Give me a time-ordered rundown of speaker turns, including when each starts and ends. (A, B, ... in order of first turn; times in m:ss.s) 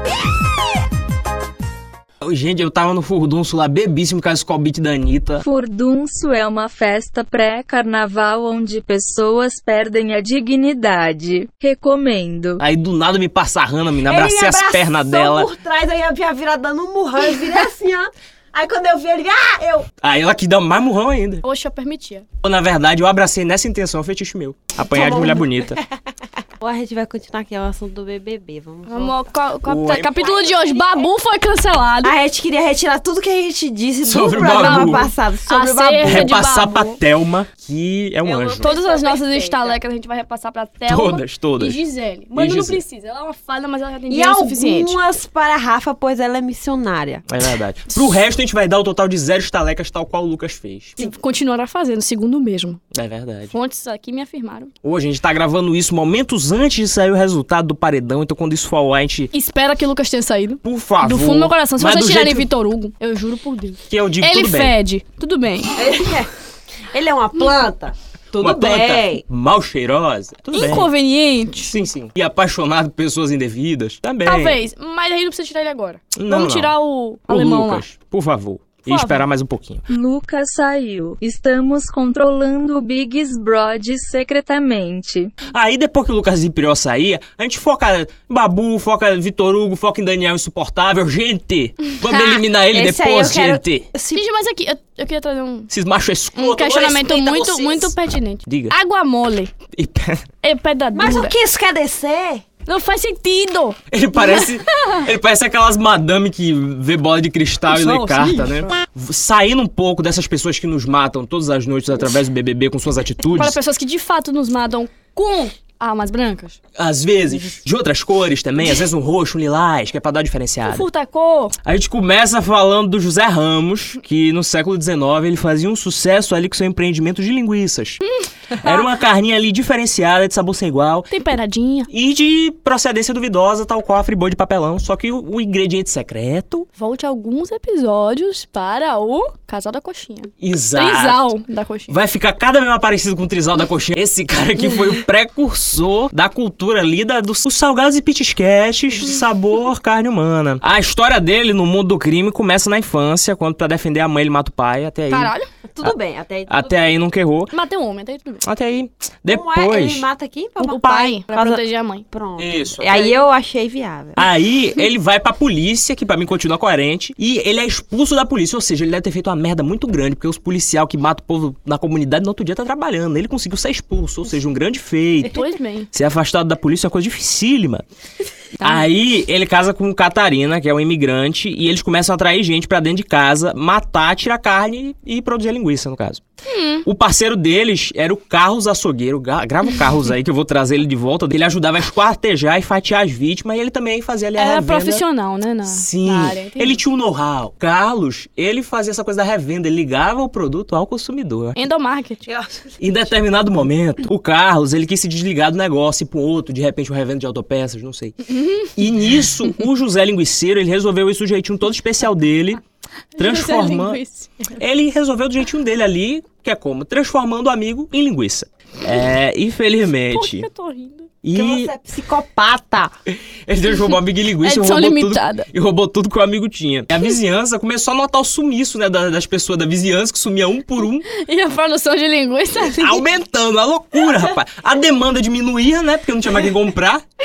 0:02.2-0:05.4 A
0:05.4-0:12.6 B
0:12.6-0:15.5 A
0:14.1-0:19.9 C
0:20.0-0:21.4 A
0:21.4-0:22.3 D
0:22.4-0:25.8 A
0:24.9-0:25.7 C
0:26.6-0:29.2 C
0:28.9-0:32.1 D
0:29.6-0:30.6 A
0:30.4-0:31.0 C
0:32.0-0:36.4 C
0:34.0-0:35.1 A
0:34.4-0:37.0 D
0:36.0-0:38.7 A
0:38.2-0:39.8 C
0:38.6-0:45.0 D
0:40.9-0:41.8 A
0:42.4-0:42.8 A
0:44.1-0:47.2 C
0:47.3-0:51.0 A
0:51.0-0:52.8 D
0:52.9-0:53.6 A
0:53.5-0:54.7 D
0:54.8-0:59.3 A
0:59.3-1:05.8 D
1:00.6-1:02.5 A
1:03.9-1:04.8 A
1:05.8-1:06.3 C
1:06.9-1:09.2 C
1:08.4-1:10.9 A
1:10.5-1:11.7 D
1:11.6-1:14.6 A
1:14.2-1:17.8 D
1:16.1-1:16.7 A
1:17.3-1:19.9 A
1:18.9-1:19.3 D
1:19.9-1:25.3 B
1:25.5-1:33.9 A
1:32.1-1:34.2 C
1:34.1-1:35.7 D
1:35.7-1:37.2 A
1:36.3-1:39.5 D
1:36.8-1:37.9 C
1:38.5-1:38.8 A
1:39.7-1:40.3 A
1:40.4-1:41.4 D
1:40.9-1:42.4 C
1:42.7-1:45.0 D
1:43.9-1:53.6 A
1:47.7-1:48.7 D
1:53.3-1:56.6 D
1:56.8-2:00.9 A
2:00.6-2:01.6 D
2:01.6-2:08.0 A
2:08.1-2:08.8 D
2:08.5-2:11.1 A
2:11.1-2:11.9 D
2:11.9-2:16.7 A
2:16.8-2:22.0 D
2:20.4-2:21.3 A
2:21.9-2:36.0 A
2:35.1-2:35.5 D
2:35.8-2:37.0 C
2:36.5-2:37.5 A
2:37.5-2:38.5 D
2:38.4-2:40.1 A
2:39.3-2:44.2 C
2:40.6-2:42.0 D
2:42.4-2:43.2 A
2:44.2-2:57.8 A
2:55.3-2:55.9 D
2:58.6-3:06.2 A
3:06.5-3:06.9 D
3:06.8-3:15.0 A
3:14.4-3:16.8 D
3:15.7-3:21.6 A
3:21.6-3:22.2 D
3:22.3-3:22.8 C
3:22.8-3:32.6 A
3:33.2-3:34.6 D
3:33.2-3:34.0 A
3:34.6-3:40.5 A
3:40.1-3:41.1 D
3:41.2-3:41.7 A
3:41.3-3:42.9 C
3:43.1-3:51.1 A
3:44.4-3:45.5 D
3:51.1-3:53.0 D
3:52.7-3:57.0 A